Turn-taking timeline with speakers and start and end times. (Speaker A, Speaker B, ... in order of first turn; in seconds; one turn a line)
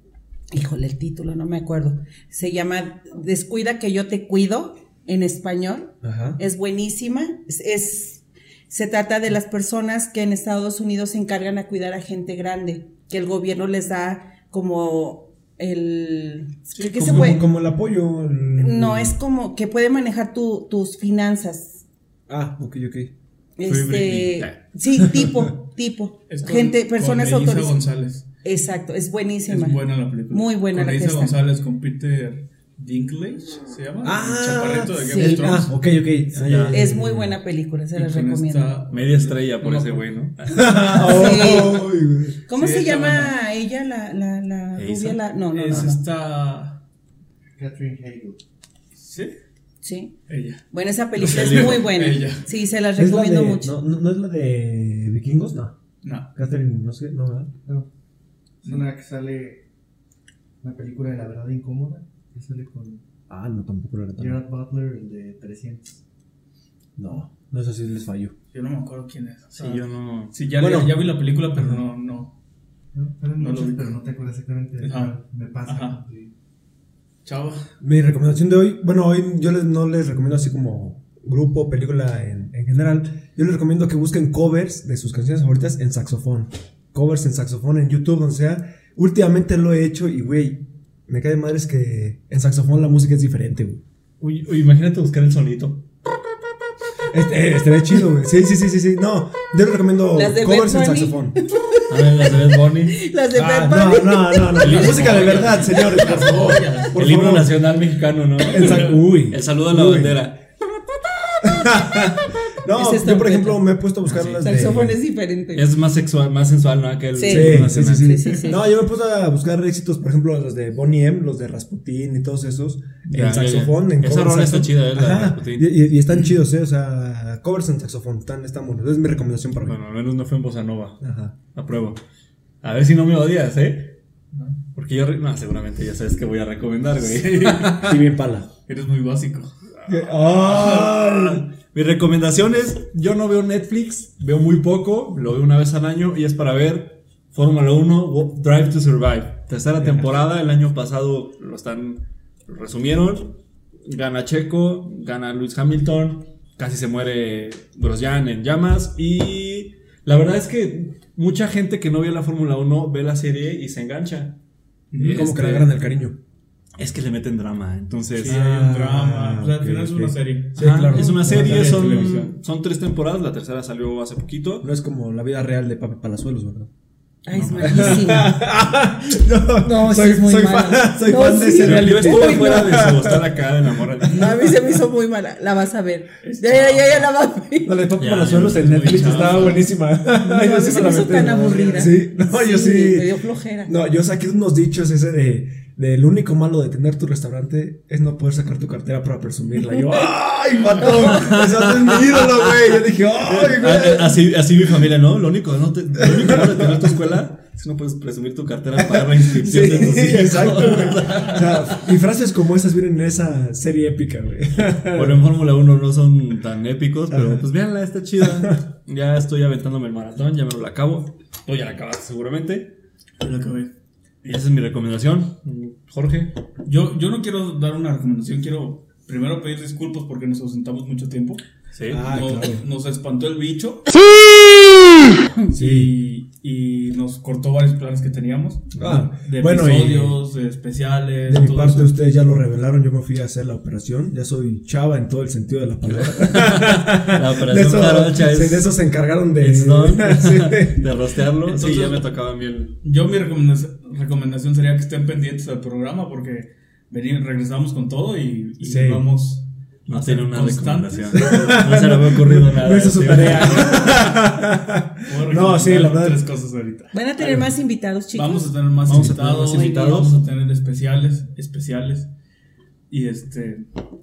Speaker A: 0.5-17.4
Speaker B: 6.0-6.4
Speaker C: 16.7-17.4
Speaker B: 16.9-19.2
Speaker A: 18.6-21.8
Speaker B: 22.3-23.1
Speaker A: 23.6-27.8
Speaker C: 23.6-24.6
Speaker D: 26.3-28.2
Speaker A: 28.4-31.3
Speaker D: 29.5-35.7
Speaker B: 34.0-37.4
Speaker A: 35.0-35.6
Speaker C: 36.4-36.8
Speaker A: 36.7-38.7
Speaker D: 37.9-40.1
Speaker C: 38.9-41.5
Speaker B: 40.5-42.4
Speaker A: 41.0-41.9
Speaker A: 42.5-46.0
Speaker D: 42.5-43.3
Speaker C: 44.7-45.9
Speaker D: 45.5-46.8
Speaker E: 47.6-48.4
Speaker D: 49.0-49.3
Speaker A: 49.8-50.1
Speaker D: 50.3-50.6
Speaker A: 50.7-53.7
Speaker C: 51.2-52.0
Speaker D: 51.2-52.4
Speaker B: 53.0-55.7
Speaker D: 56.0-56.3
Speaker B: 56.3-57.5
Speaker E: 58.6-59.6
Speaker E: 60.6-63.0
Speaker B: 63.3-64.4
Speaker E: 64.2-66.0
Speaker B: 67.0-68.3
Speaker D: 68.5-72.3
Speaker C: 69.6-70.3
Speaker B: 70.6-71.8
Speaker E: 72.9-76.3
Speaker D: 73.4-73.9
Speaker D: 74.8-75.1
Speaker D: 75.7-76.0
Speaker D: 77.2-77.7
Speaker B: 77.8-93.8
Speaker C: 94.2-95.8
Speaker B: 97.1-101.4
Speaker A: 100.1-105.1
Speaker C: 101.9-103.0
Speaker B: 103.3-107.5
Speaker D: 104.5-107.0
Speaker C: 104.6-105.6
Speaker A: 105.7-106.8
Speaker C: 106.9-110.4
Speaker B: 108.4-110.2
Speaker D: 108.5-109.0
Speaker A: 110.9-111.7
Speaker B: 111.4-115.0
Speaker A: 112.7-113.7
Speaker C: 114.0-114.9
Speaker A: 114.4-115.7
Speaker C: 115.5-118.5
Speaker A: 117.1-118.7
Speaker B: 117.2-129.8
Speaker C: 123.1-125.8
Speaker C: 129.7-131.0
Speaker B: 131.0-131.3
Speaker C: 131.5-132.0
Speaker C: 132.6-133.9
Speaker C: 134.7-138.0
Speaker B: 137.4-138.5
Speaker D: 138.7-139.5
Speaker C: 139.8-164.4
Speaker B: 139.9-141.4
Speaker D: 140.5-140.9
Speaker B: 149.8-150.1
Speaker D: 164.9-165.3
Speaker C: 164.9-165.7
Speaker B: 165.1-166.2
Speaker C: 166.8-168.4
Speaker D: 168.2-172.3
Speaker B: 168.2-172.1
Speaker C: 170.6-174.7
Speaker B: 174.6-176.7
Speaker A: 177.2-178.4
Speaker C: 177.3-178.3
Speaker B: 177.6-183.3
Speaker A: 179.6-182.9
Speaker C: 181.5-184.3
Speaker A: 184.0-187.8
Speaker D: 186.2-187.1
Speaker B: 187.6-204.2
Speaker C: 188.0-189.7
Speaker A: 190.2-193.7
Speaker D: 200.5-200.8
Speaker C: 200.8-211.8
Speaker B: 206.0-207.0
Speaker B: 208.8-215.3
Speaker C: 214.9-222.8
Speaker B: 217.1-217.4
Speaker D: 223.2-223.7
Speaker C: 224.2-226.3
Speaker D: 226.6-233.9
Speaker C: 231.7-232.1
Speaker B: 231.9-232.6
Speaker D: 235.4-241.9
Speaker B: 235.5-235.9
Speaker B: 238.8-240.2
Speaker B: 241.3-250.9
Speaker C: 245.9-248.8
Speaker C: 249.4-252.7
Speaker D: 251.4-252.0
Speaker D: 252.8-261.4
Speaker B: 258.6-259.0
Speaker C: 259.9-264.1
Speaker B: 261.1-266.2
Speaker D: 265.0-266.9
Speaker A: 266.9-268.5
Speaker B: 267.2-267.5
Speaker D: 268.1-272.1
Speaker C: 268.8-270.1
Speaker B: 268.9-269.2
Speaker A: 269.5-270.1
Speaker D: 272.9-273.6